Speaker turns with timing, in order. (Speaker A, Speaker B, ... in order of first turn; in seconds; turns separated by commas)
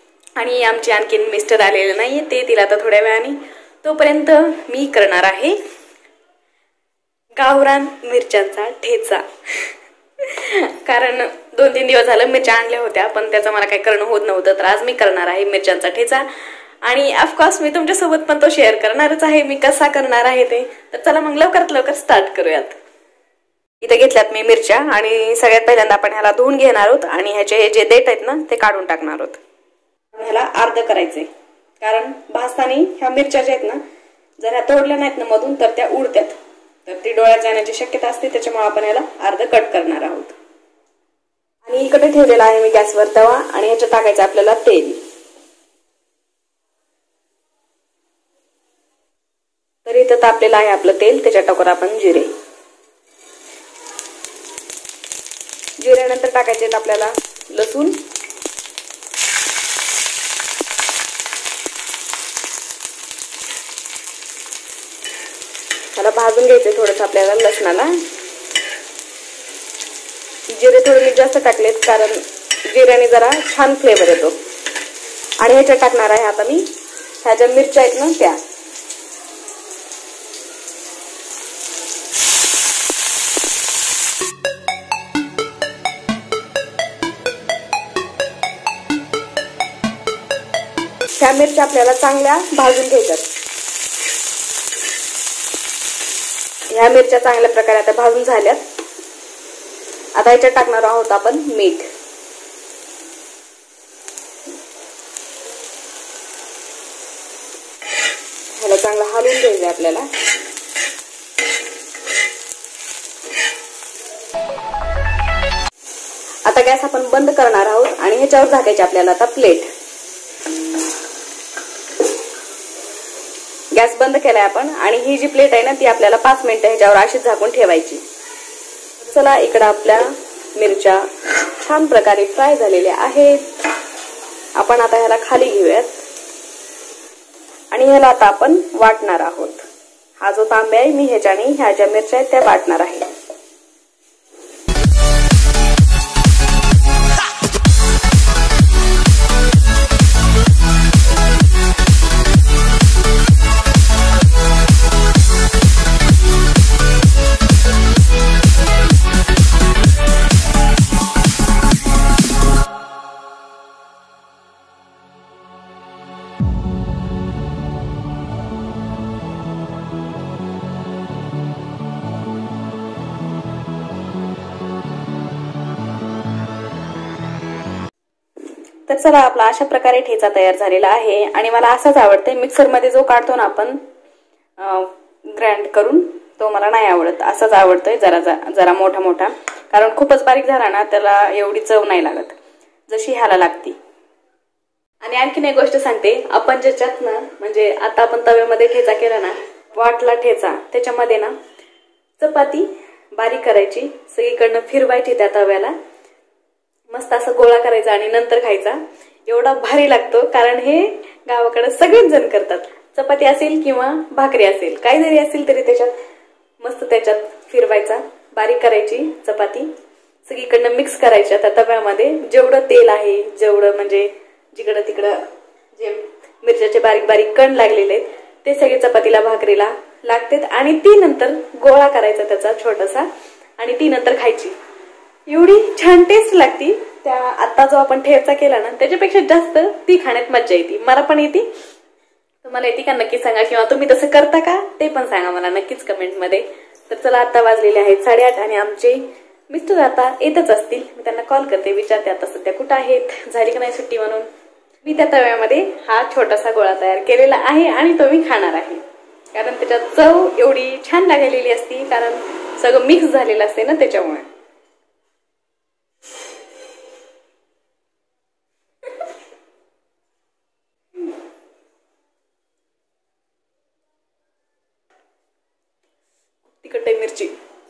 Speaker A: 0.3-5.6, Speaker A: 7.3-9.7, Speaker A: 10.2-16.2, Speaker A: 16.8-22.8, Speaker A: 23.8-29.4, Speaker A: 30.1-31.3, Speaker A: 31.8-33.8, Speaker A: 34.4-36.3, Speaker A: 36.9-40.3, Speaker A: 41.6-45.0, Speaker A: 49.8-52.3, Speaker A: 55.8-58.0, Speaker A: 66.0-67.9, Speaker A: 70.5-74.3, Speaker A: 75.4-76.7, Speaker A: 77.2-78.4, Speaker A: 91.2-93.2, Speaker A: 96.7-98.6, Speaker A: 100.1-101.9, Speaker A: 108.6-110.1, Speaker A: 116.4-119.7, Speaker A: 123.7-128.0, Speaker A: 129.0-133.4, Speaker A: 134.6-135.9, Speaker A: 137.7-139.6, Speaker A: 140.2-143.1, Speaker A: 178.9-183.8, Speaker A: 184.6-192.3, Speaker A: 192.9-193.8, Speaker A: 195.0-201.3, Speaker A: 202.2-205.7, Speaker A: 206.9-215.9, Speaker A: 216.6-219.7, Speaker A: 220.2-225.2, Speaker A: 225.7-233.1, Speaker A: 233.6-234.5, Speaker A: 235.3-241.4, Speaker A: 242.4-254.3, Speaker A: 254.8-258.8, Speaker A: 259.3-264.2, Speaker A: 276.6-277.3